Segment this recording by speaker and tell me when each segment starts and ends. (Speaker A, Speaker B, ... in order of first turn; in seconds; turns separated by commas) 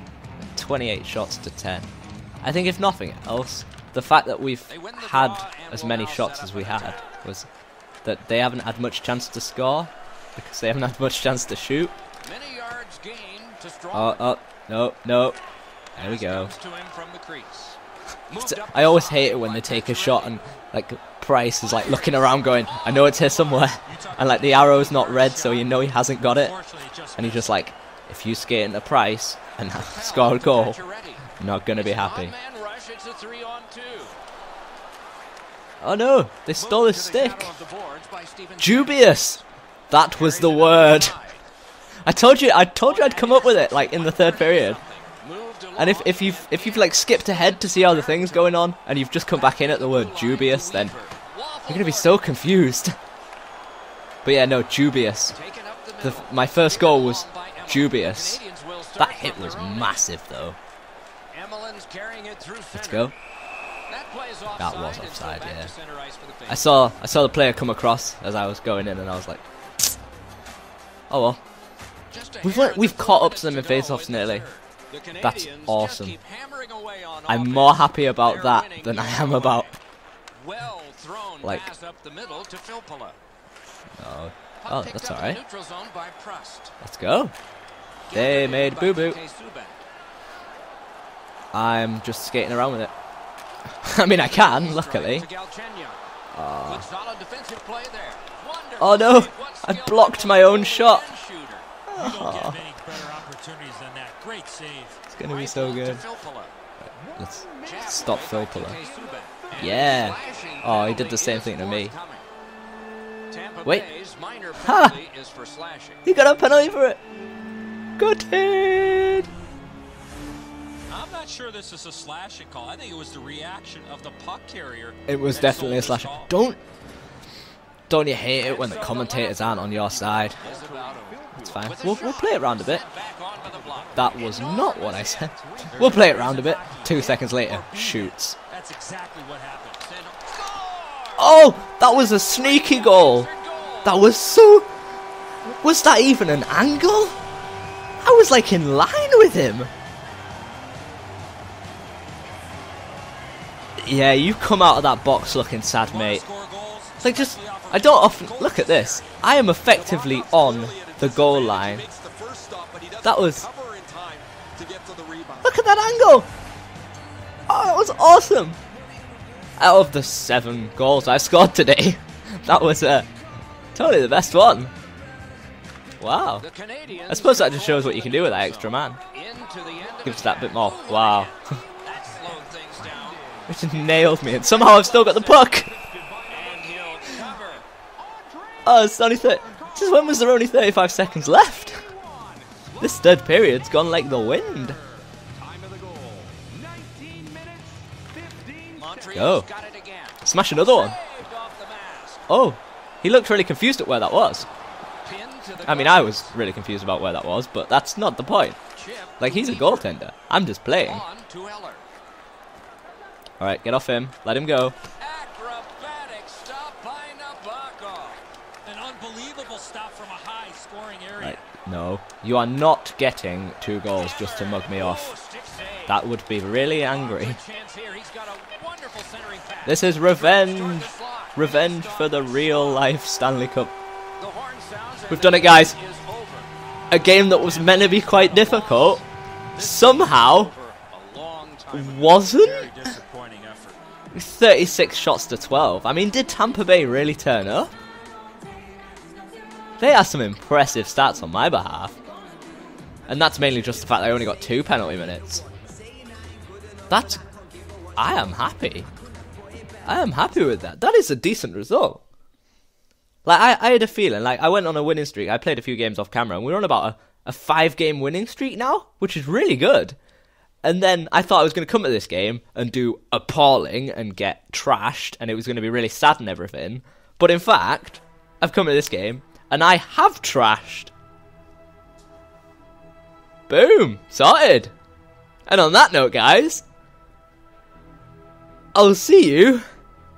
Speaker A: 0.5-1.9, Speaker A: 2.4-7.5, Speaker B: 4.7-7.1, Speaker A: 8.0-11.9, Speaker B: 12.2-14.3, Speaker A: 13.9-15.4, Speaker B: 15.9-17.8, Speaker A: 16.0-16.5, Speaker B: 18.3-20.4, Speaker A: 18.4-26.5, Speaker B: 22.7-23.3, Speaker C: 23.9-27.5, Speaker A: 27.2-30.8, Speaker B: 29.7-34.1, Speaker A: 31.4-32.3, Speaker A: 35.8-37.5, Speaker B: 36.5-39.1, Speaker A: 38.6-41.2, Speaker B: 40.1-41.4, Speaker A: 42.0-44.8, Speaker B: 42.8-48.6, Speaker A: 45.8-51.0, Speaker B: 49.3-52.2, Speaker A: 51.7-53.0, Speaker A: 54.2-55.4, Speaker B: 55.3-60.0, Speaker A: 56.0-58.4, Speaker A: 59.0-60.6, Speaker B: 61.3-63.1, Speaker A: 62.7-63.1, Speaker B: 63.9-66.7, Speaker A: 64.5-65.7, Speaker A: 66.5-69.5, Speaker A: 71.1-71.4, Speaker B: 72.1-79.8, Speaker A: 72.4-74.5, Speaker A: 75.2-76.2, Speaker A: 77.3-79.7, Speaker B: 80.3-83.2, Speaker A: 81.4-81.7, Speaker A: 84.0-85.4, Speaker B: 84.6-86.7, Speaker A: 86.8-87.3, Speaker B: 88.1-89.8, Speaker A: 88.1-89.2, Speaker A: 91.5-92.9, Speaker A: 93.8-95.3, Speaker B: 94.3-96.0, Speaker A: 96.3-96.9, Speaker B: 96.7-101.7, Speaker A: 98.8-101.0, Speaker A: 101.9-102.6, Speaker C: 102.0-105.0, Speaker A: 105.1-106.0, Speaker B: 105.2-106.5, Speaker A: 107.1-108.8, Speaker B: 107.6-112.2, Speaker A: 109.5-112.0, Speaker B: 113.3-116.0, Speaker A: 114.6-115.0, Speaker A: 116.0-117.0, Speaker A: 118.0-119.3, Speaker C: 120.9-126.3, Speaker A: 125.1-126.6, Speaker B: 125.3-125.9, Speaker A: 127.9-130.4, Speaker B: 128.4-137.5, Speaker C: 130.5-131.0, Speaker A: 131.3-132.8, Speaker A: 133.9-138.4, Speaker C: 135.4-137.1, Speaker C: 138.5-139.8, Speaker B: 139.8-141.5, Speaker A: 141.2-143.3, Speaker B: 142.2-144.0, Speaker A: 143.8-144.7, Speaker A: 145.5-147.1, Speaker A: 148.0-149.7, Speaker A: 153.8-156.2, Speaker C: 155.8-159.0, Speaker A: 157.0-161.8, Speaker B: 158.4-158.9, Speaker D: 160.0-165.4, Speaker B: 160.1-160.5, Speaker A: 163.0-163.5, Speaker A: 165.4-166.3, Speaker A: 167.5-168.6, Speaker A: 169.6-173.1, Speaker A: 173.8-174.7, Speaker A: 176.0-176.5, Speaker B: 176.4-183.3, Speaker A: 177.1-179.0, Speaker A: 180.0-181.3, Speaker A: 183.5-185.7, Speaker B: 184.4-184.8, Speaker C: 185.7-186.1, Speaker B: 186.2-187.7, Speaker A: 188.6-191.9, Speaker A: 192.8-194.8, Speaker C: 195.5-196.2, Speaker C: 196.9-197.6, Speaker B: 198.7-202.2, Speaker A: 199.1-199.5, Speaker A: 200.2-201.0, Speaker A: 202.3-204.5, Speaker B: 205.0-206.3, Speaker A: 205.6-208.6, Speaker B: 208.8-209.9, Speaker A: 209.2-211.0, Speaker B: 210.8-211.8, Speaker A: 213.4-214.8, Speaker B: 215.0-218.2, Speaker C: 218.6-221.4, Speaker A: 221.2-225.1, Speaker B: 223.9-226.0, Speaker A: 225.9-227.4, Speaker B: 226.8-232.9, Speaker A: 229.7-233.7, Speaker B: 234.2-236.5, Speaker A: 235.1-235.8, Speaker A: 236.9-239.0, Speaker B: 237.4-243.8, Speaker A: 239.6-240.5, Speaker A: 241.7-242.8, Speaker A: 244.1-247.7, Speaker A: 249.8-251.9, Speaker A: 253.1-255.4, Speaker A: 256.9-257.2, Speaker A: 258.0-258.9, Speaker A: 259.8-262.0, Speaker A: 263.2-270.0, Speaker A: 270.6-280.9, Speaker A: 283.5-284.7, Speaker A: 285.5-286.6, Speaker A: 288.7-289.6